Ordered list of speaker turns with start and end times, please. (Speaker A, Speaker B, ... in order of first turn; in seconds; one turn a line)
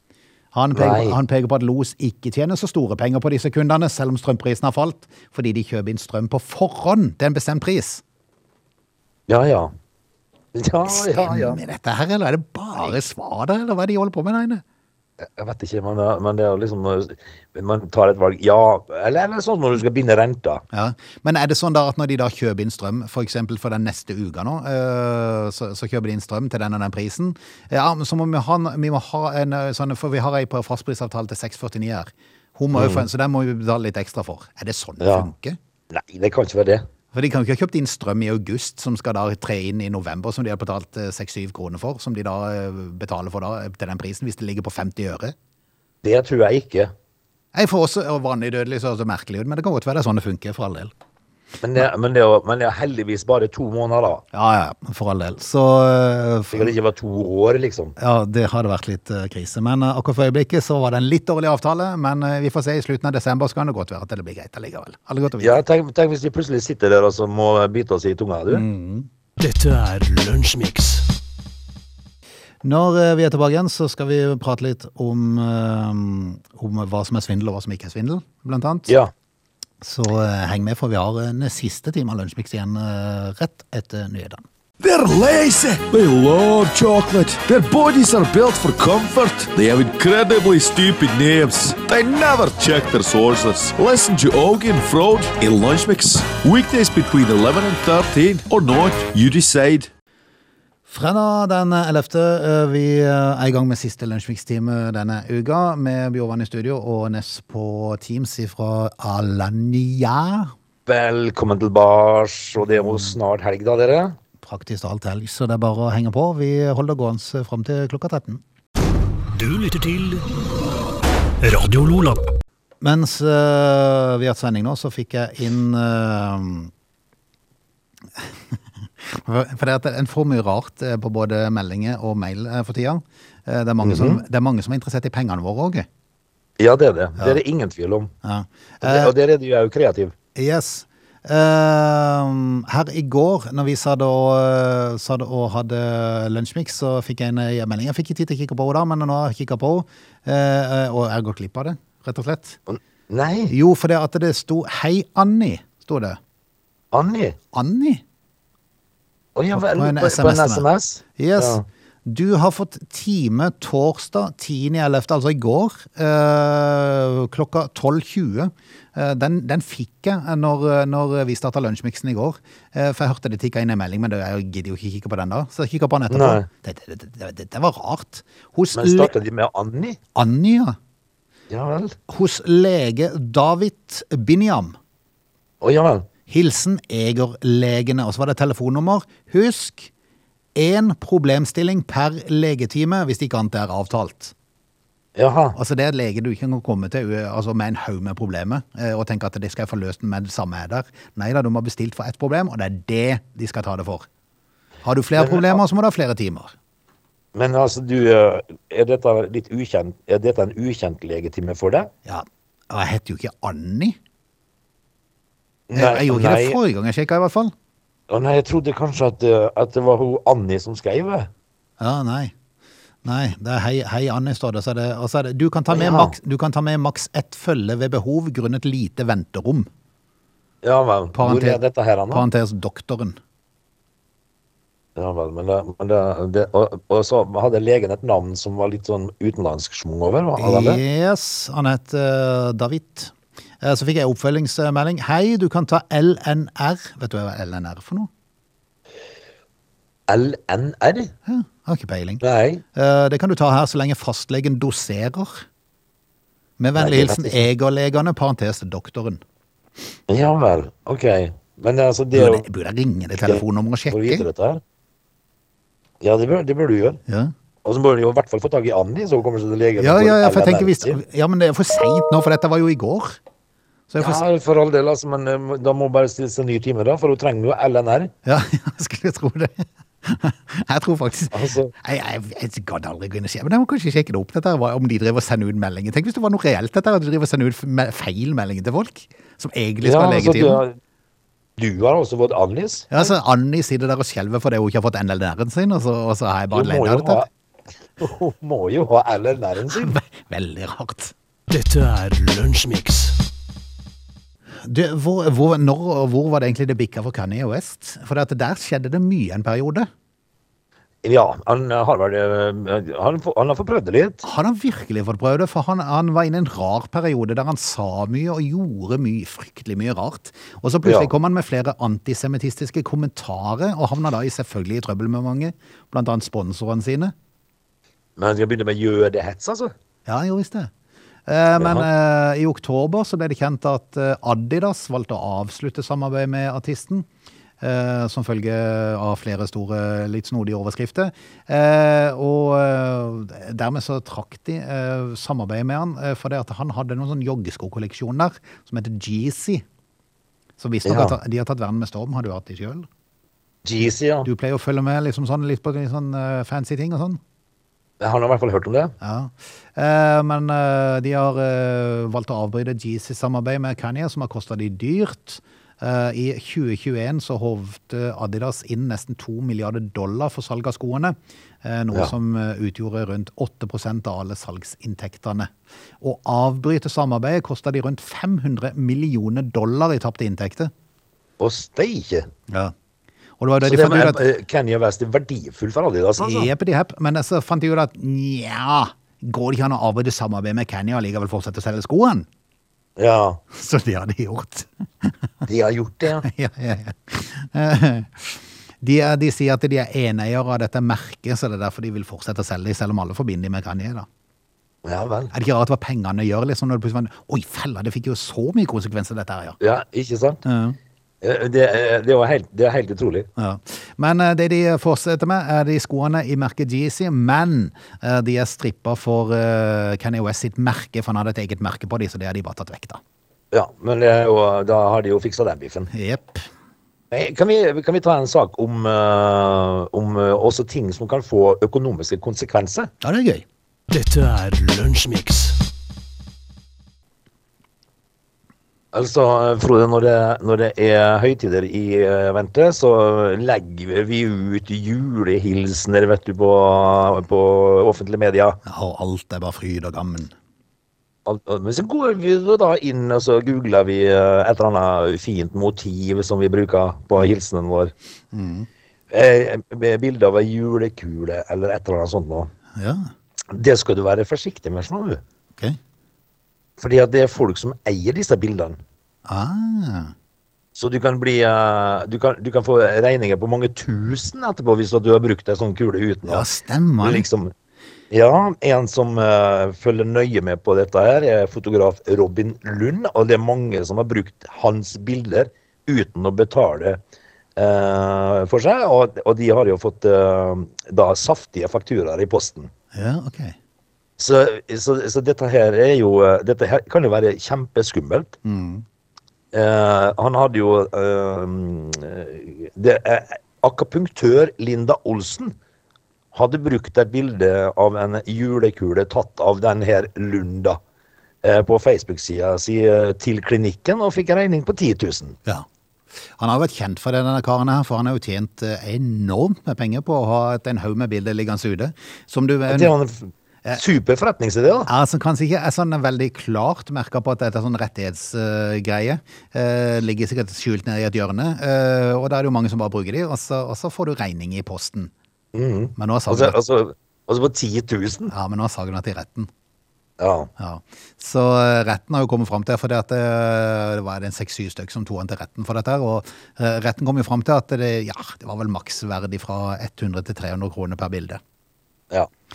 Speaker A: 0.5-8.0
Speaker B: 0.7-1.2
Speaker B: 9.3-9.7
Speaker B: 10.5-11.6
Speaker A: 10.9-14.6
Speaker B: 15.2-20.6
Speaker A: 20.7-35.6
Speaker B: 32.7-33.1
Speaker B: 35.0-35.3
Speaker B: 35.9-36.8
Speaker A: 37.1-45.3
Speaker B: 46.0-46.9
Speaker A: 47.5-50.9
Speaker B: 51.6-54.2
Speaker A: 54.3-56.7
Speaker B: 56.5-57.9
Speaker A: 58.0-65.6
Speaker B: 65.4-68.6
Speaker A: 68.5-69.1
Speaker C: 69.4-71.0
Speaker A: 72.6-78.9
Speaker A: 79.8-84.4
Speaker D: 84.8-99.9
Speaker A: 100.9-110.5
Speaker B: 110.8-114.2
Speaker A: 112.8-113.1
Speaker A: 114.4-118.4
Speaker C: 119.3-120.2
Speaker C: 121.4-122.2
Speaker A: 122.8-126.7
Speaker A: 128.2-135.8
Speaker B: 133.8-134.2
Speaker B: 136.6-138.1
Speaker A: 138.2-139.1
Speaker B: 138.8-140.1
Speaker A: 140.3-152.6
Speaker B: 152.7-153.5
Speaker A: 153.5-156.2
Speaker B: 156.9-157.4
Speaker A: 157.5-158.0
Speaker B: 159.3-161.6
Speaker A: 159.5-160.7
Speaker A: 161.2-179.1
Speaker B: 176.1-176.5
Speaker B: 178.7-180.0
Speaker A: 180.1-180.8
Speaker B: 181.5-182.0
Speaker A: 182.1-184.8
Speaker B: 185.6-186.1
Speaker A: 186.3-189.9
Speaker A: 190.6-194.3
Speaker B: 195.2-195.6
Speaker A: 195.5-204.1
Speaker A: 204.8-206.5
Speaker B: 205.2-205.6
Speaker B: 207.3-211.9
Speaker A: 212.1-214.0
Speaker B: 215.7-216.6
Speaker A: 215.7-217.5
Speaker B: 218.1-221.3
Speaker A: 221.8-222.3
Speaker A: 223.0-229.7
Speaker B: 225.7-226.1
Speaker B: 230.6-232.2
Speaker A: 231.1-233.2
Speaker B: 234.9-240.8
Speaker A: 240.4-248.1
Speaker B: 250.1-251.1
Speaker A: 251.2-252.2
Speaker B: 252.2-252.6
Speaker A: 252.7-255.4
Speaker A: 256.6-259.2
Speaker B: 256.8-257.4
Speaker B: 260.1-262.4
Speaker A: 262.1-264.2
Speaker B: 263.2-264.6
Speaker B: 266.0-267.0
Speaker A: 267.1-267.3
Speaker B: 267.6-271.0
Speaker A: 269.8-273.2
Speaker A: 273.9-274.2
Speaker B: 274.0-278.1
Speaker A: 278.2-290.6
Speaker B: 281.3-281.7
Speaker B: 289.8-290.8
Speaker B: 291.6-293.1
Speaker A: 292.9-297.2
Speaker B: 296.5-297.3
Speaker B: 298.0-299.9
Speaker A: 299.7-301.1
Speaker C: 301.5-303.1
Speaker A: 304.6-309.9
Speaker B: 311.0-314.2
Speaker A: 314.2-327.1
Speaker B: 320.8-321.1
Speaker B: 328.2-329.7
Speaker A: 330.1-330.7
Speaker A: 331.3-337.1
Speaker B: 331.6-331.9
Speaker A: 337.6-349.6
Speaker A: 350.6-352.9
Speaker B: 350.8-351.1
Speaker B: 353.6-354.3
Speaker A: 354.2-357.2
Speaker B: 358.0-358.9
Speaker A: 359.0-380.7
Speaker B: 381.4-382.3
Speaker A: 382.5-382.7
Speaker A: 383.4-384.2
Speaker B: 383.6-386.5
Speaker A: 386.2-392.2
Speaker B: 393.0-393.4
Speaker A: 393.5-395.1
Speaker B: 395.4-396.3
Speaker A: 396.2-404.1
Speaker B: 404.8-405.3
Speaker A: 405.3-409.6
Speaker B: 409.6-410.4
Speaker A: 410.4-410.8
Speaker B: 411.2-413.3
Speaker A: 413.4-423.0
Speaker B: 423.5-425.9
Speaker A: 425.9-426.5
Speaker B: 427.1-432.9
Speaker A: 433.0-433.4
Speaker C: 433.9-435.6
Speaker B: 438.9-448.6
Speaker A: 448.6-450.3
Speaker B: 451.2-457.9
Speaker A: 458.3-458.7
Speaker B: 459.1-462.5
Speaker A: 462.8-463.1
Speaker B: 463.5-465.2
Speaker B: 466.8-468.8
Speaker A: 469.3-470.1
Speaker B: 470.7-476.4
Speaker A: 476.3-477.2
Speaker B: 477.0-477.5
Speaker B: 478.1-487.0
Speaker B: 487.6-492.7
Speaker A: 492.9-493.6
Speaker B: 494.2-498.3
Speaker A: 498.4-498.8
Speaker B: 499.5-505.5
Speaker B: 506.3-510.8
Speaker B: 511.4-515.4
Speaker A: 516.4-522.9
Speaker B: 522.7-524.9
Speaker A: 524.9-535.1
Speaker B: 535.5-538.3
Speaker A: 536.0-536.6
Speaker A: 538.3-539.5
Speaker B: 540.2-540.5
Speaker A: 540.6-551.4